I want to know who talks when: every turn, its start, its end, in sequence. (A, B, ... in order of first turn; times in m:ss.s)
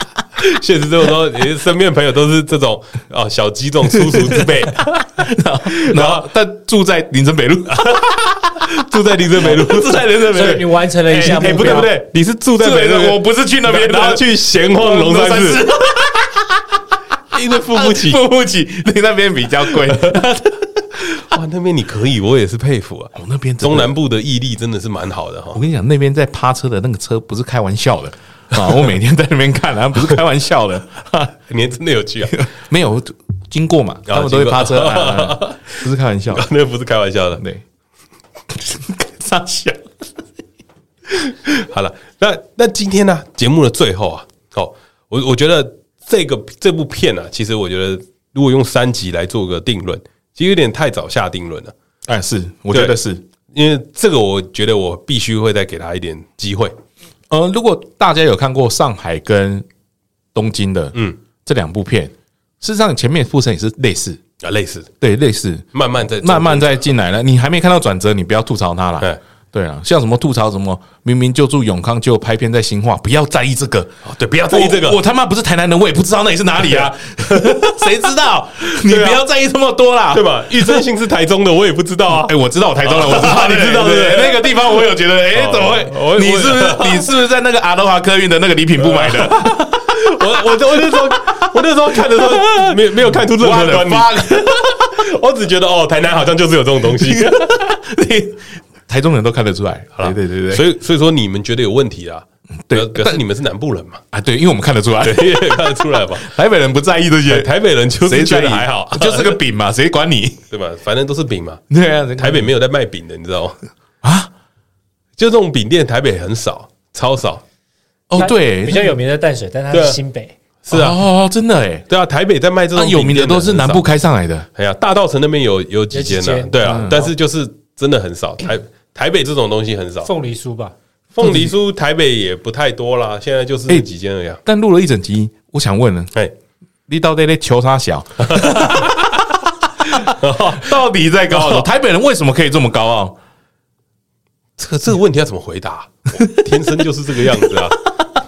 0:00.4-0:04.9 A
0:04.1-0:08.6 B
0:05.7-0:06.3 A
0:07.7-0:15.6 A
0:09.4-0:11.9 B
0:10.0-0:11.9 C
0:12.6-0:16.8 B
0:17.3-0:18.2 A
0:17.7-0:20.8 B
0:19.7-0:20.3 A
0:21.0-0:25.6 A
0:23.1-0:23.9 B
0:25.5-0:31.3 B
0:31.5-0:32.5 A
0:32.3-0:36.5 B
0:34.1-0:37.4 A
0:37.4-0:37.6 B
0:38.5-0:39.8 B
0:41.5-0:51.7 A
0:52.1-0:53.2 B
0:52.7-0:53.0 A
0:53.5-0:56.8 A
0:57.3-0:59.7 B
1:00.3-1:04.2 B
1:04.4-1:04.9 A
1:05.0-1:05.7 B
1:05.7-1:06.9 A
1:06.2-1:13.9 B
1:14.0-1:15.0 A
1:14.5-1:20.8 B
1:16.7-1:17.9 A
1:18.7-1:19.2 A
1:20.1-1:27.2 A
1:22.1-1:34.9 B
1:28.8-1:37.7 A
1:37.0-1:40.6 B
1:40.0-1:44.0 A
1:42.7-1:43.2 B
1:44.1-1:50.4 B
1:45.0-1:46.3 A
1:47.3-1:49.4 A
1:50.5-1:51.6 A
1:51.7-1:52.5 B
1:52.2-1:53.6 A
1:54.0-1:54.3 B
1:55.2-1:57.4 A
1:58.1-1:59.0 B
1:58.2-2:00.4 C
1:59.7-2:00.0 A
2:00.6-2:01.0 A
2:00.7-2:01.9 B
2:01.9-2:03.8 A
2:02.7-2:04.5 B
2:04.6-2:10.1 A
2:05.9-2:07.1 C
2:06.6-2:07.0 B
2:10.0-2:10.7 C
2:11.1-2:14.4 A
2:11.2-2:11.5 B
2:14.4-2:16.1 B
2:16.9-2:19.1 B
2:18.2-2:19.1 A
2:19.8-2:23.2 B
2:20.0-2:21.7 A
2:24.6-2:27.8 A